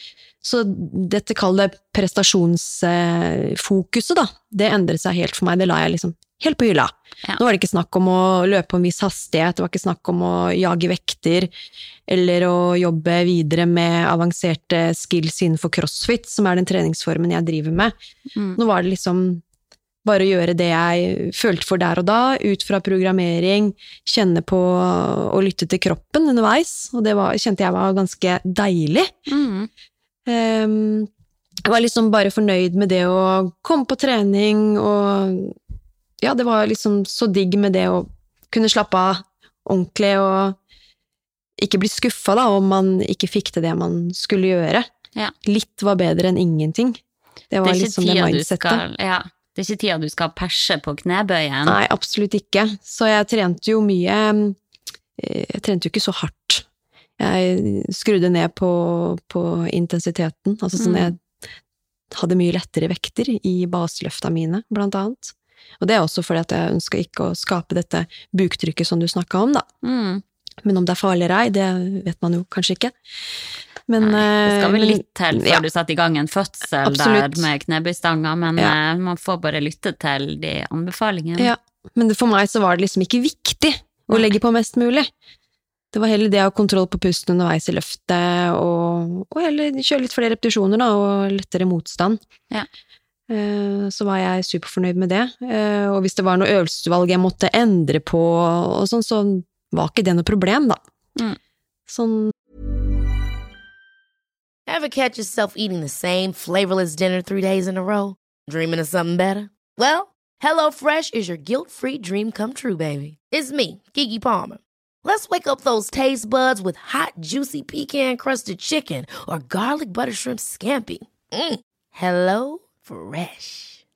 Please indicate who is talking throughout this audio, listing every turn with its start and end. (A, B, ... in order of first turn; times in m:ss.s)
0:00.4-0:11.5 A
0:12.1-0:17.9 A
0:18.6-0:19.4 A
0:20.0-0:29.1 A
0:29.3-0:29.7 B
0:30.3-0:31.1 A
0:31.6-0:35.6 A
0:36.2-0:40.6 A
0:41.6-0:44.9 A
0:45.4-0:47.0 A
0:47.5-0:48.8 A
0:47.6-0:51.8 B
0:51.7-0:54.6 A
0:55.2-0:56.6 A
0:57.2-1:01.2 A
1:00.8-1:01.1 B
1:02.1-1:09.7 A
1:09.8-1:10.2 B
1:10.6-1:13.0 A
1:13.9-1:15.6 A
1:14.0-1:21.5 B
1:16.8-1:17.5 A
1:21.4-1:25.1 A
1:25.9-1:32.2 A
1:33.3-1:40.8 A
1:41.9-1:42.3 A
1:44.7-2:03.8 C